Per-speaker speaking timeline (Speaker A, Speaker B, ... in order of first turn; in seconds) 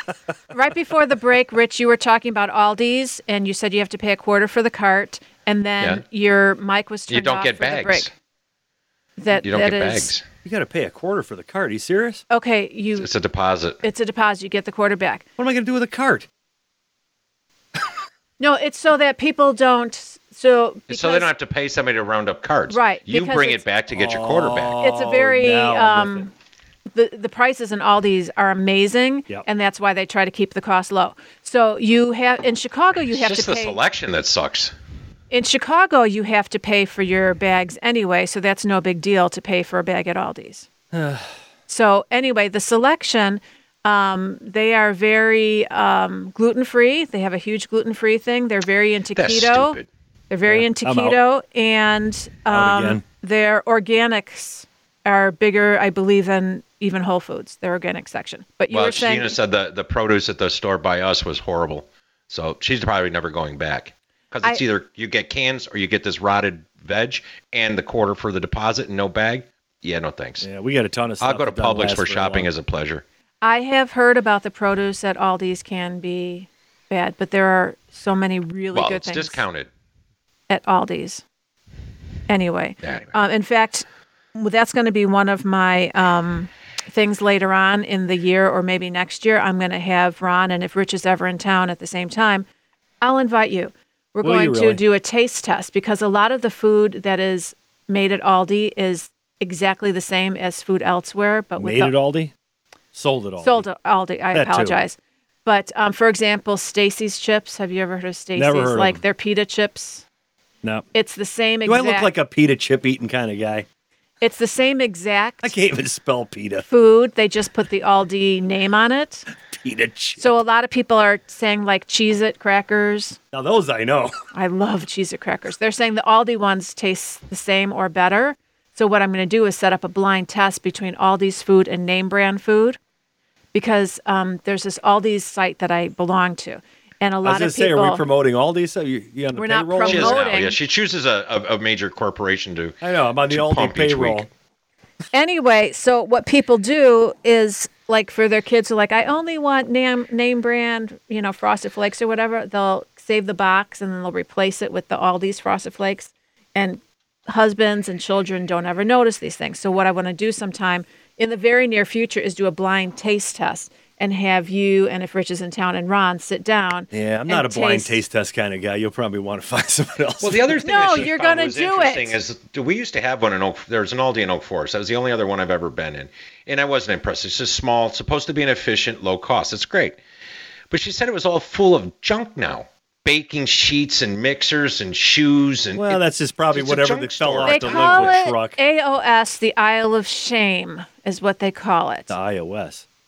Speaker A: 0.5-8.1, 9.2-10.1, 12.3-13.1, 13.8-15.2, 18.4-21.3, 22.7-23.6, 24.8-26.3, 26.9-33.8, 35.3-40.7, 41.7-49.8, 50.3-59.3, 73.4-79.4, 80.5-81.2, 82.3-92.4, 93.0-102.0, 103.4-110.0, 110.9-112.1, 114.2-115.5, 116.7-119.2, 120.2-123.2, 124.3-132.8, 133.5-138.1, 139.3-140.6, 145.1-168.0, 170.6-172.1, 187.4-192.2
Speaker B: 7.1-8.1, 9.4-10.2, 13.0-13.8, 20.9-24.8, 33.1-34.7, 49.1-49.9, 58.7-70.4, 71.2-73.0, 78.7-79.7, 82.8-83.1, 139.8-142.8, 143.3-144.3, 170.2-180.0, 180.7-186.0, 186.5-188.1
Speaker C: 10.4-12.2, 15.4-16.3, 23.9-26.2, 40.9-41.3, 50.5-51.1, 52.5-53.0, 70.4-72.5, 94.2-94.8, 101.6-102.3, 102.9-103.7, 104.3-104.8, 108.3-109.0, 111.6-113.7, 115.4-116.7, 119.5-120.3, 123.3-124.1, 137.2-140.2, 142.8-144.3, 166.9-171.1, 185.7-188.6, 192.1-192.8